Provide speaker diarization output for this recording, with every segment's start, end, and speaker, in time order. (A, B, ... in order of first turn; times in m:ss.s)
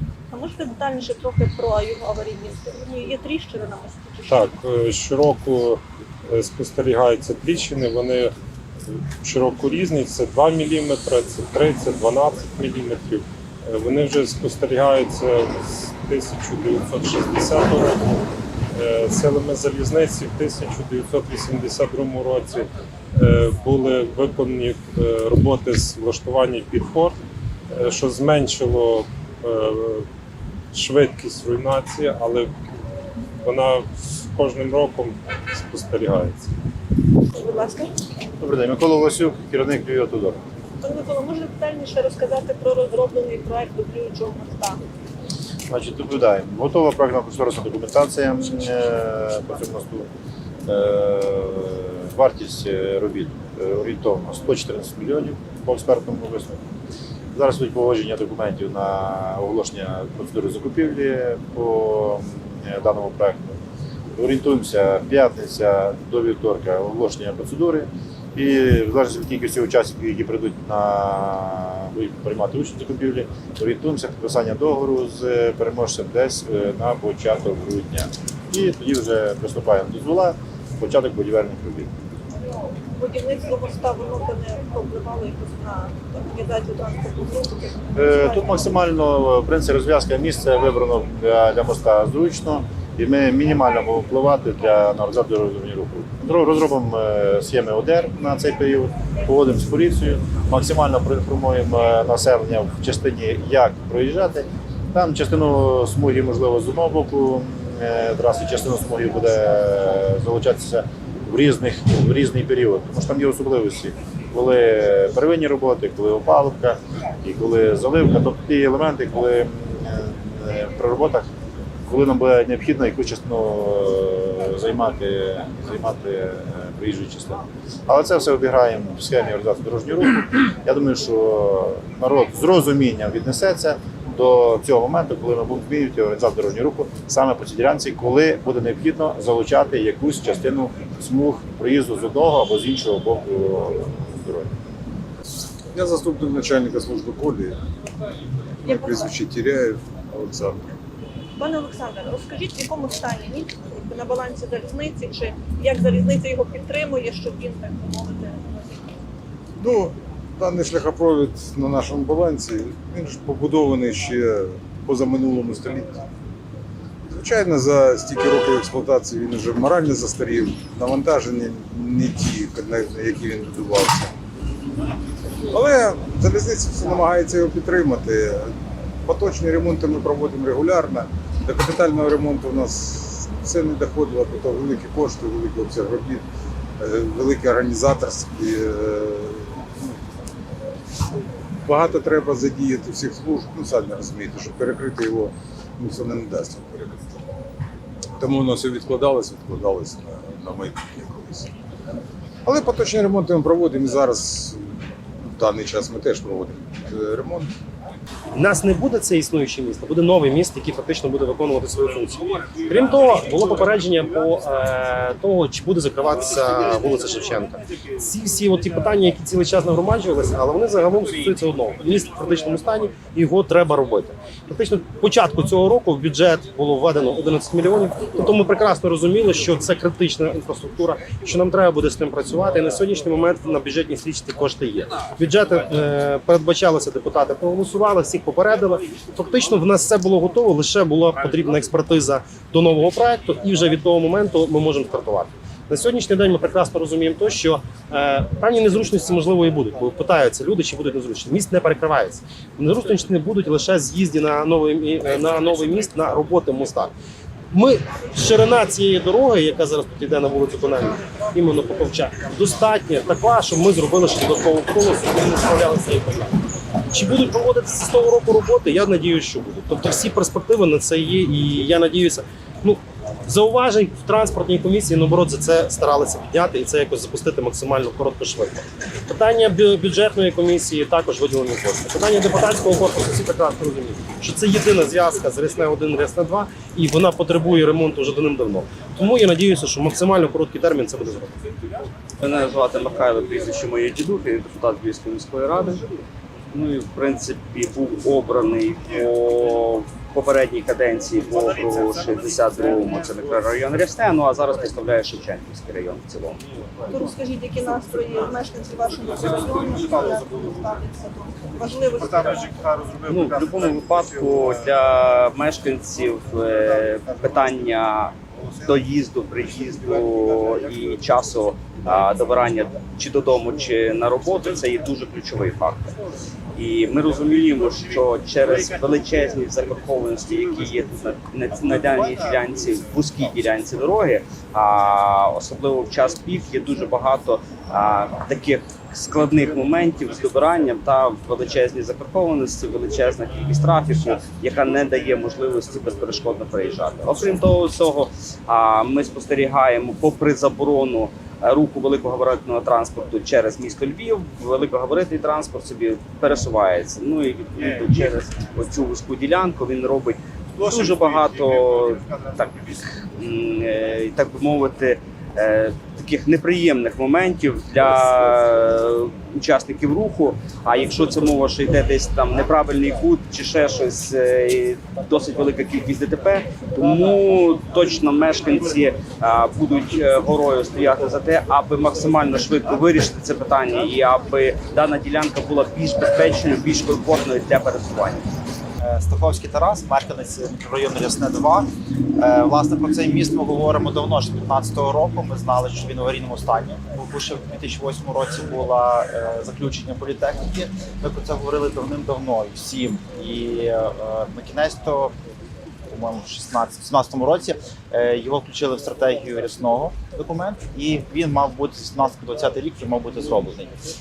0:00.3-0:04.5 A
0:04.3-0:08.3 B
0:09.2-0:18.0 B
0:18.7-0:27.2 B
0:27.7-0:30.0 B
0:30.7-0:32.5 B
0:33.4-0:36.5 B
0:37.3-0:38.0 A
0:38.4-0:40.4 C
0:40.8-0:44.8 A
0:45.7-0:50.1 C
0:50.7-0:56.6 C
0:57.3-1:03.6 C
1:04.2-1:21.9 C
1:22.9-1:28.5 A
1:28.0-2:01.3 C
2:01.9-2:24.5 C
2:25.7-2:27.6 D
2:28.6-2:30.8 D
2:28.6-2:29.1 A
2:31.4-2:38.5 A
2:39.6-2:46.0 D
2:47.1-2:54.1 D
2:55.5-2:58.5 D
2:59.1-3:06.2 D
3:06.8-3:10.0 D
3:11.7-3:17.2 D
3:18.2-3:21.5 D
3:22.5-3:27.5 D
3:28.3-4:16.9 E
4:17.5-4:26.3 E
4:26.9-4:51.3 E
4:52.2-4:55.9 F
4:56.5-5:06.5 F
5:06.9-5:12.7 A
5:12.9-5:26.0 F
5:26.6-6:28.3 F
6:28.8-6:45.1 G
6:45.9-6:53.7 G